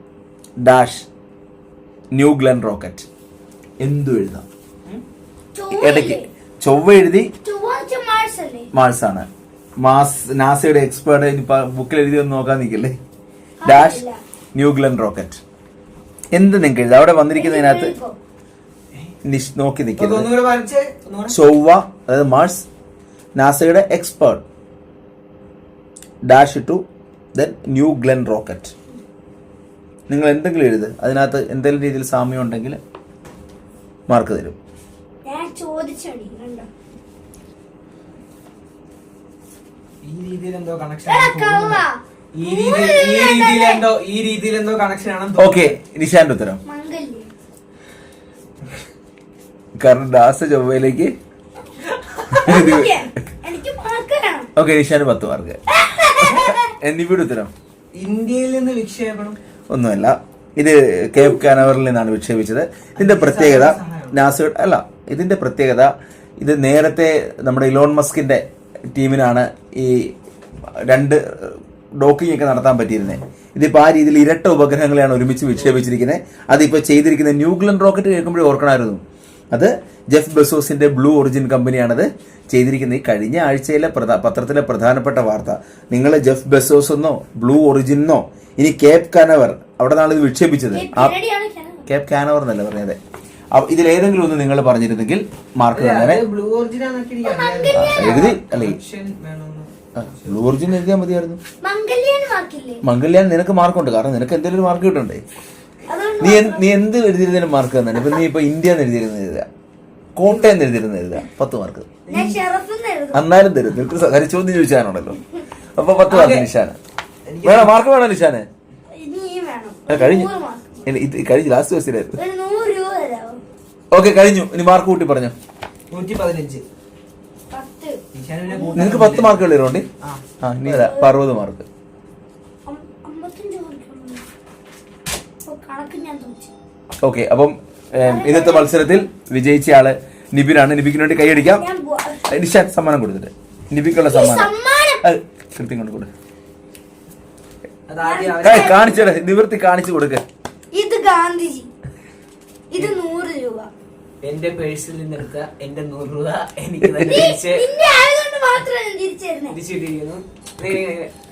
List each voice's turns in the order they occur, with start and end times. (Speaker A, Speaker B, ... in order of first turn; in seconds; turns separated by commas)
Speaker A: 0.6-1.1, Speaker A: 2.1-3.1, Speaker A: 3.8-4.4, Speaker B: 5.5-6.3, Speaker A: 5.7-7.3, Speaker B: 7.4-8.7, Speaker A: 8.7-9.3, Speaker A: 9.8-13.0, Speaker B: 13.6-14.2, Speaker A: 13.6-14.0, Speaker A: 14.5-15.4, Speaker A: 16.3-17.9, Speaker B: 17.4-18.2, Speaker A: 19.2-20.3, Speaker C: 20.0-21.4, Speaker A: 21.3-22.6, Speaker A: 23.4-24.4, Speaker A: 26.2-28.7, Speaker A: 30.1-32.8, Speaker A: 34.1-34.6, Speaker B: 35.2-36.7, Speaker C: 40.0-45.8, Speaker B: 41.1-43.8, Speaker A: 45.4-46.6, Speaker B: 46.6-47.3, Speaker A: 49.8-51.1, Speaker C: 52.1-52.5, Speaker B: 52.3-54.5, Speaker A: 52.4-53.0, Speaker A: 54.5-55.6, Speaker B: 55.7-56.7, Speaker A: 56.2-57.5, Speaker C: 56.2-56.5, Speaker C: 58.0-59.4, Speaker A: 59.7-70.1, Speaker B: 61.2-61.5, Speaker C: 63.0-64.2, Speaker A: 70.9-91.1, Speaker B: 90.7-91.9, Speaker A: 91.9-93.0, Speaker A: 93.5-96.2, Speaker C: 95.7-100.5, Speaker B: 97.2-98.3, Speaker A: 97.7-98.8, Speaker A: 100.0-101.4, Speaker B: 101.6-102.8, Speaker A: 102.8-105.2, Speaker B: 105.9-106.7, Speaker A: 106.2-109.5, Speaker A: 110.2-111.9, Speaker C: 112.0-112.4, Speaker B: 112.1-113.2, Speaker A: 113.1-115.2, Speaker A: 115.8-116.8, Speaker C: 116.1-116.5, Speaker C: 117.3-117.7, Speaker A: 117.4-118.5, Speaker B: 118.9-120.8, Speaker A: 119.9-120.3, Speaker A: 120.8-122.2, Speaker B: 122.2-123.4, Speaker A: 123.9-125.3, Speaker C: 125.9-126.6, Speaker B: 127.5-128.0, Speaker C: 128.1-130.9, Speaker B: 128.5-129.0, Speaker A: 128.7-129.9, Speaker A: 130.4-131.7, Speaker B: 130.7-131.1, Speaker B: 132.6-134.2, Speaker B: 135.4-136.5, Speaker A: 137.0-141.6, Speaker B: 138.0-138.9, Speaker B: 141.5-142.3, Speaker A: 142.3-146.1, Speaker B: 143.9-145.0, Speaker C: 147.9-149.2, Speaker B: 148.0-148.9, Speaker A: 148.4-150.2, Speaker B: 150.7-151.7, Speaker B: 152.7-153.7, Speaker C: 154.2-157.7, Speaker B: 157.0-159.6, Speaker C: 159.5-161.1